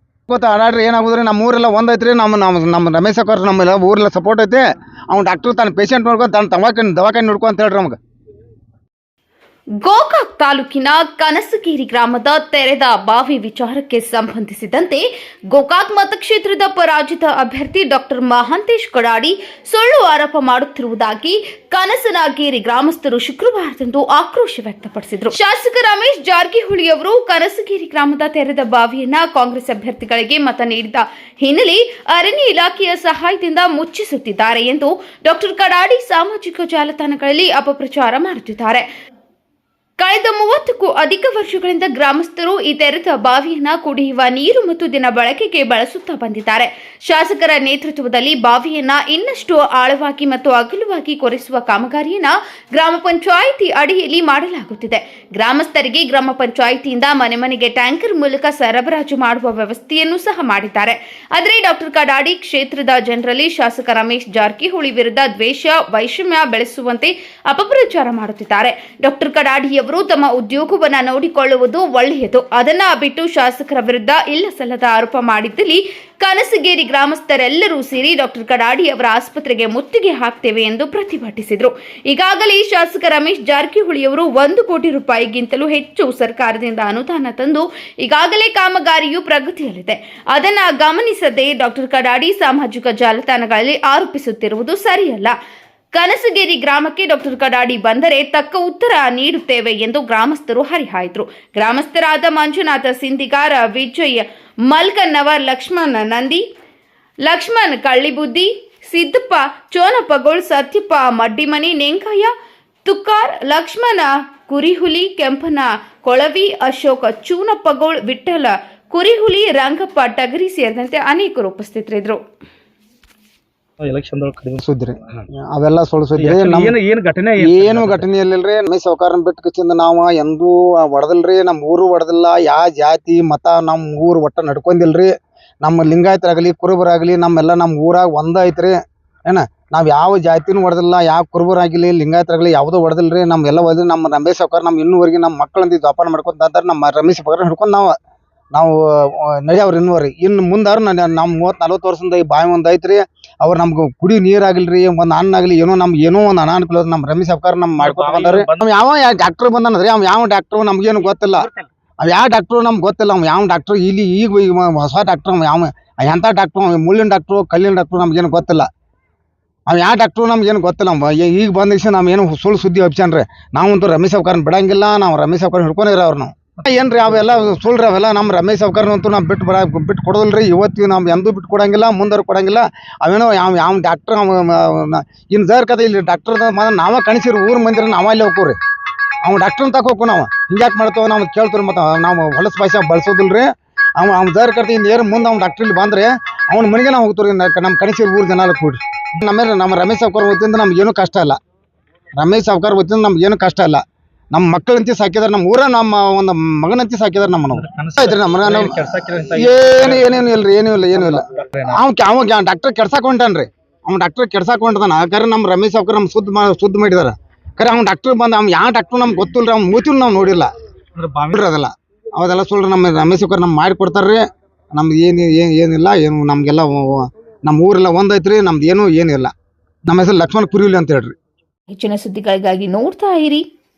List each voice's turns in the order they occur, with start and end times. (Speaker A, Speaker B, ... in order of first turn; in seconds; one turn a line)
Speaker A: 0.3-8.0
Speaker B: 9.8-38.9
Speaker B: 40.0-95.3
Speaker B: 95.9-106.4
Speaker B: 107.3-112.3
Speaker B: 112.8-122.2
Speaker C: 123.8-124.6
Speaker A: 124.6-126.7
Speaker C: 126.2-128.1
Speaker A: 127.4-147.9
Speaker A: 148.5-161.5
Speaker C: 157.8-158.7
Speaker A: 162.0-168.7
Speaker A: 169.7-188.6
Speaker A: 189.2-201.4
Speaker A: 202.2-203.8
Speaker A: 204.3-220.5
Speaker C: 207.5-210.3
Speaker C: 211.1-211.8
Speaker C: 221.0-221.4
Speaker A: 221.2-229.3
Speaker A: 229.9-231.1
Speaker B: 231.7-233.5